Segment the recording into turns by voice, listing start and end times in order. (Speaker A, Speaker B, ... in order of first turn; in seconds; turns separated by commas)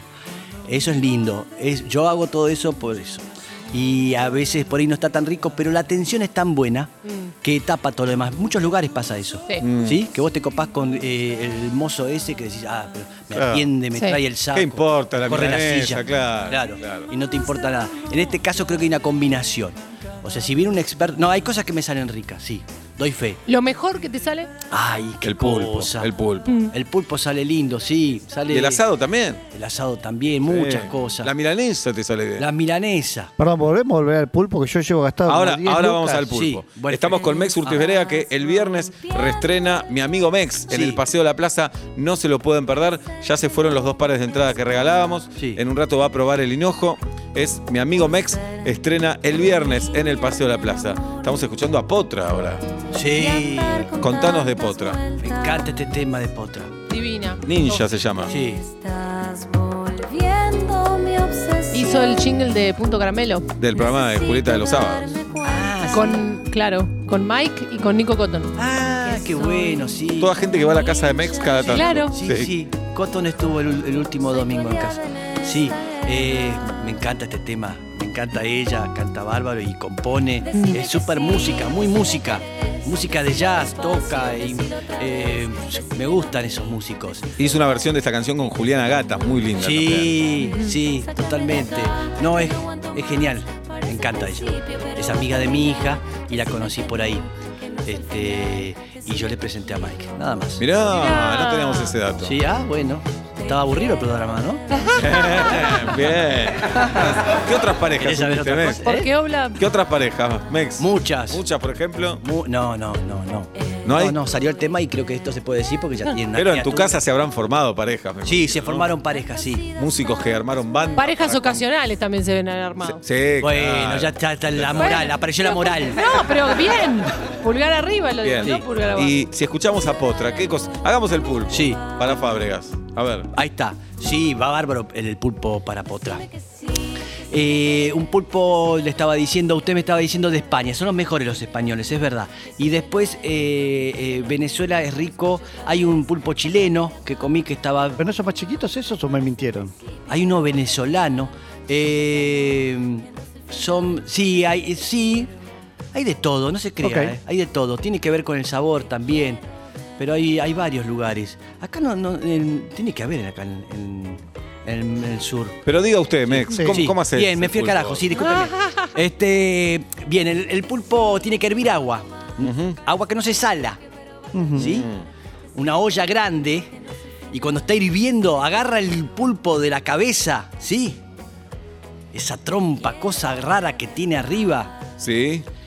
Speaker A: 0.7-23.4, Speaker B: 7.0-7.3, Speaker C: 9.6-10.1, Speaker C: 13.3-13.7, Speaker C: 14.5-17.1, Speaker B: 23.5-24.5, Speaker A: 24.7-26.1, Speaker C: 25.2-26.6, Speaker B: 26.5-26.7, Speaker A: 26.7-28.8, Speaker C: 28.5-29.4, Speaker A: 29.5-31.3, Speaker C: 30.5-32.5, Speaker A: 32.4-33.3, Speaker D: 33.4-36.3, Speaker C: 35.3-52.6, Speaker A: 36.3-37.8, Speaker A: 40.7-41.0, Speaker A: 52.9-54.0, Speaker C: 53.8-55.1, Speaker A: 55.1-56.8, Speaker B: 56.9-57.9, Speaker C: 57.4-58.3, Speaker A: 58.3-58.7, Speaker B: 61.7-63.5, Speaker C: 63.6-65.3, Speaker A: 65.3-66.2, Speaker B: 65.9-68.5, Speaker A: 68.6-70.4, Speaker C: 70.2-72.5, Speaker B: 71.7-72.1, Speaker A: 72.1-87.3, Speaker B: 80.5-80.8, Speaker C: 87.4-90.3, Speaker A: 89.6-97.3, Speaker B: 90.4-90.8, Speaker A: 97.8-100.7, Speaker C: 100.6-102.4, Speaker B: 100.9-102.0, Speaker A: 102.2-104.7, Speaker C: 104.9-109.0, Speaker A: 106.6-107.3, Speaker A: 108.0-109.1, Speaker B: 108.8-109.6, Speaker C: 109.6-112.2, Speaker A: 110.8-111.4, Speaker A: 112.2-117.0, Speaker C: 113.8-114.2, Speaker C: 116.3-119.0, Speaker A: 118.2-119.7, Speaker C: 119.7-121.6, Speaker B: 121.0-123.0, Speaker C: 122.8-125.0, Speaker A: 123.4-126.2, Speaker B: 124.8-129.1, Speaker C: 128.2-133.3, Speaker A: 128.4-128.7, Speaker A: 131.5-131.8, Speaker A: 133.3-136.2, Speaker A: 137.3-148.0, Speaker D: 148.0-149.7, Speaker A: 150.1-155.3, Speaker A: 155.9-159.4, Speaker D: 156.8-157.1, Speaker A: 160.0-165.6, Speaker C: 165.7-168.2, Speaker A: 166.3-173.8, Speaker B: 168.2-168.9, Speaker C: 172.4-172.8, Speaker D: 174.3-174.8, Speaker A: 174.6-174.9, Speaker C: 174.6-175.1, Speaker A: 175.6-176.7, Speaker A: 177.3-181.0, Speaker A: 182.1-184.8, Speaker C: 185.0-185.5